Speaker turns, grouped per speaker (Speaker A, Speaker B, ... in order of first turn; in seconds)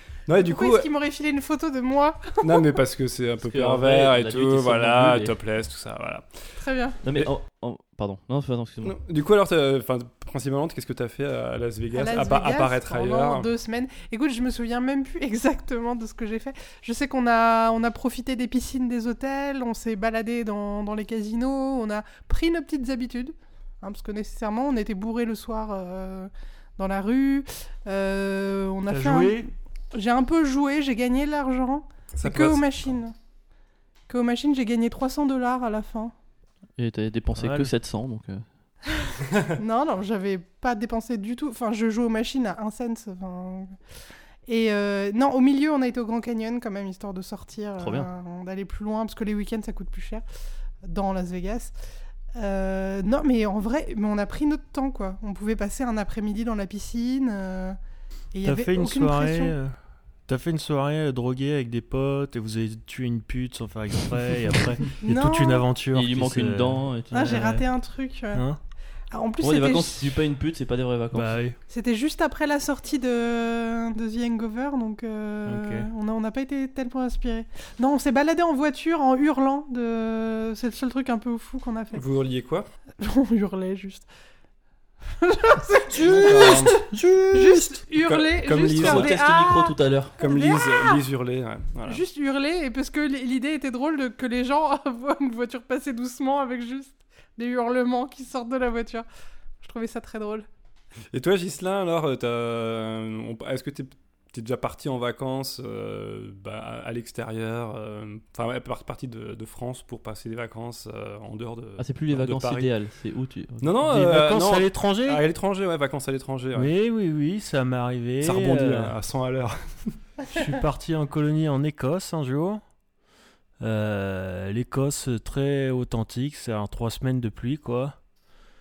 Speaker A: 0.3-0.9, 2.4-6.4, 8.8-13.5, 32.1-32.9, 81.9-82.7, 86.1-86.8, 88.0-89.1, 90.2-92.0, 101.1-112.7, 113.6-116.7, 118.2-120.0
Speaker B: 0.4-2.7, 6.6-7.0, 11.9-33.1, 34.1-36.1, 38.9-43.7, 44.5-50.2, 50.9-51.7, 52.4-57.8, 58.3-59.5, 65.0-65.7, 67.1-68.5, 69.1-70.2, 71.7-82.0, 83.0-84.1, 85.1-91.0, 91.9-99.1, 99.6-100.5
Speaker C: 3.4-5.3, 7.0-9.0, 36.8-38.4, 47.8-48.1, 65.9-67.6, 69.4-71.3, 88.7-90.1, 111.8-113.7
Speaker D: 28.9-29.5, 37.4-37.7, 58.5-59.8, 60.3-67.6, 68.3-68.6, 71.1-71.6, 75.5-75.9, 85.9-87.8, 113.9-115.2, 116.5-119.0, 120.3-122.6, 123.6-128.0